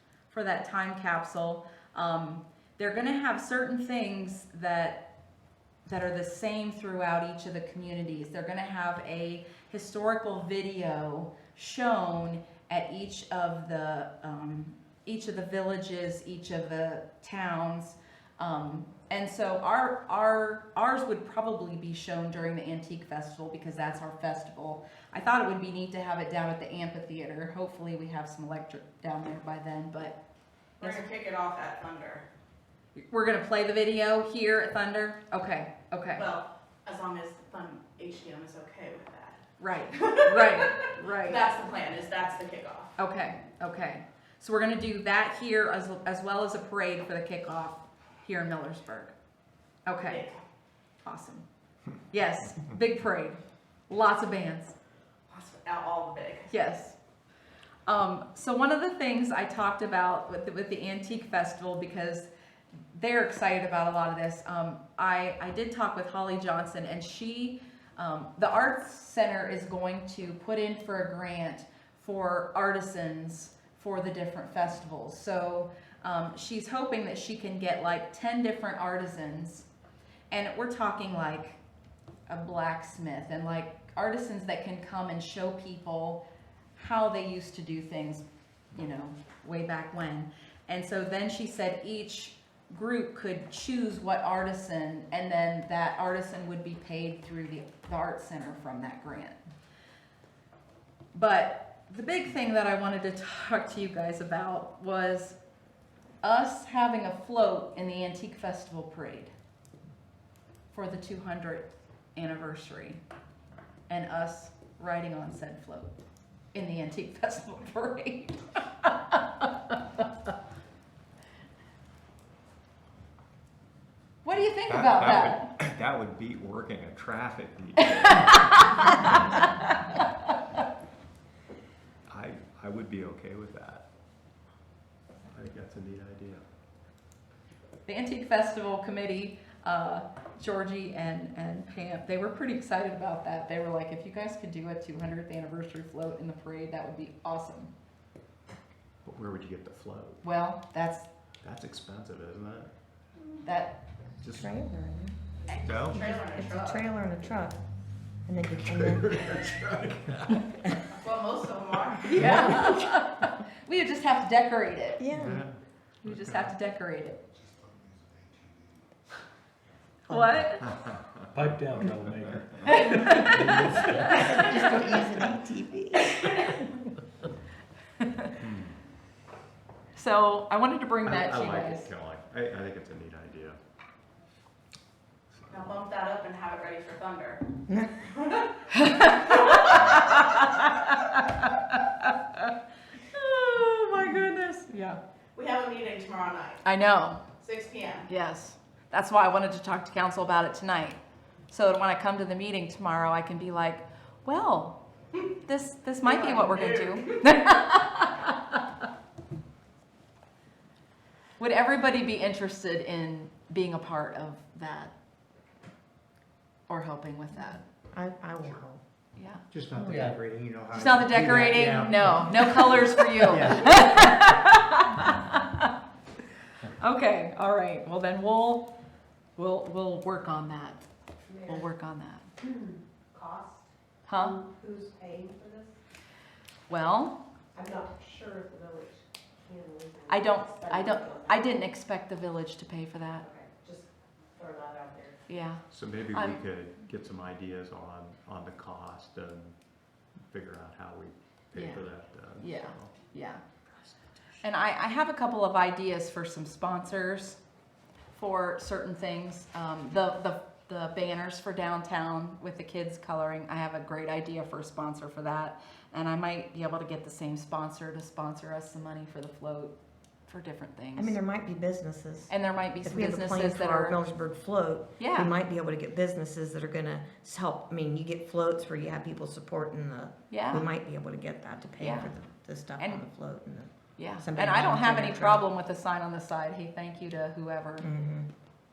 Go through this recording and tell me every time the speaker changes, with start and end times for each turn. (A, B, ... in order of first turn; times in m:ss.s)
0:00.3-0:05.1 A
0:05.8-0:30.2 A
0:30.8-0:32.2 B
0:33.0-0:36.2 A
0:36.2-0:42.9 B
0:39.6-0:41.4 A
0:43.0-0:49.1 A
0:49.8-0:50.2 A
0:50.0-0:50.4 B
0:51.0-0:51.4 A
0:52.1-0:54.7 A
0:55.3-0:56.5 B
0:56.5-0:57.0 A
0:57.9-1:02.3 A
1:02.9-1:19.7 A
1:20.3-1:21.6 A
1:22.3-1:26.2 A
1:26.8-1:39.4 A
1:41.1-1:45.4 A
1:46.2-1:49.3 A
1:50.7-1:53.0 A
1:53.9-1:55.9 A
1:56.5-2:00.3 A
2:04.2-2:05.4 A
2:04.6-2:09.3 C
2:08.0-2:10.3 A
2:12.1-2:13.9 C
2:15.3-2:16.4 C
2:17.8-2:27.7 A
2:29.0-2:30.2 C
2:30.2-2:31.1 A
2:31.4-2:32.7 C
2:33.4-2:33.8 A
2:34.2-2:34.5 C
2:34.3-2:35.2 D
2:35.5-2:36.8 B
2:35.6-2:36.1 C
2:36.0-2:37.6 D
2:38.2-2:39.3 D
2:38.7-2:40.7 C
2:41.0-2:42.2 B
2:42.0-2:45.1 A
2:42.2-2:42.8 D
2:42.3-2:42.5 E
2:45.0-2:45.4 D
2:45.1-2:46.5 C
2:46.0-2:47.2 A
2:50.1-2:50.7 A
2:50.6-2:51.2 C
2:51.3-2:54.3 E
2:52.6-2:54.4 A
2:54.1-2:56.6 D
2:58.0-2:58.3 A
2:58.4-2:58.7 C
2:59.9-3:01.9 A
3:01.0-3:03.6 C
3:05.4-3:05.7 C
3:05.5-3:07.4 B
3:07.7-3:08.0 D
3:08.1-3:10.2 B
3:08.7-3:15.0 A
3:15.3-3:16.6 B
3:16.6-3:17.2 A
3:17.4-3:18.1 B
3:18.1-3:24.8 A
3:25.4-3:28.6 A
3:26.0-3:27.2 B
3:31.4-3:34.9 A
3:36.7-3:37.6 A
3:37.9-3:38.8 D
3:39.2-3:39.4 A
3:39.5-3:44.1 F
3:39.8-3:40.1 E
3:40.7-3:45.8 A
3:46.8-3:48.7 A
3:49.4-3:50.8 A
3:51.4-3:52.3 A
3:53.2-3:53.6 G
3:54.1-3:54.4 A
3:54.4-3:55.7 G
3:56.7-3:57.2 A
3:57.5-3:58.9 G
3:59.6-4:00.2 G
4:00.1-4:03.3 A
4:03.3-4:03.8 G
4:04.4-4:05.1 G
4:05.3-4:06.4 A
4:05.7-4:09.5 C
4:10.2-4:12.9 C
4:11.5-4:11.9 A
4:12.4-4:13.4 A
4:14.4-4:17.4 A
4:18.1-4:29.7 A
4:30.3-4:31.2 A
4:31.0-4:45.5 D
4:32.3-4:34.0 A
4:35.0-4:35.3 A
4:40.3-4:40.7 A
4:41.8-4:42.1 A
4:42.8-4:43.0 A
4:44.0-4:47.9 A
4:47.8-4:48.3 D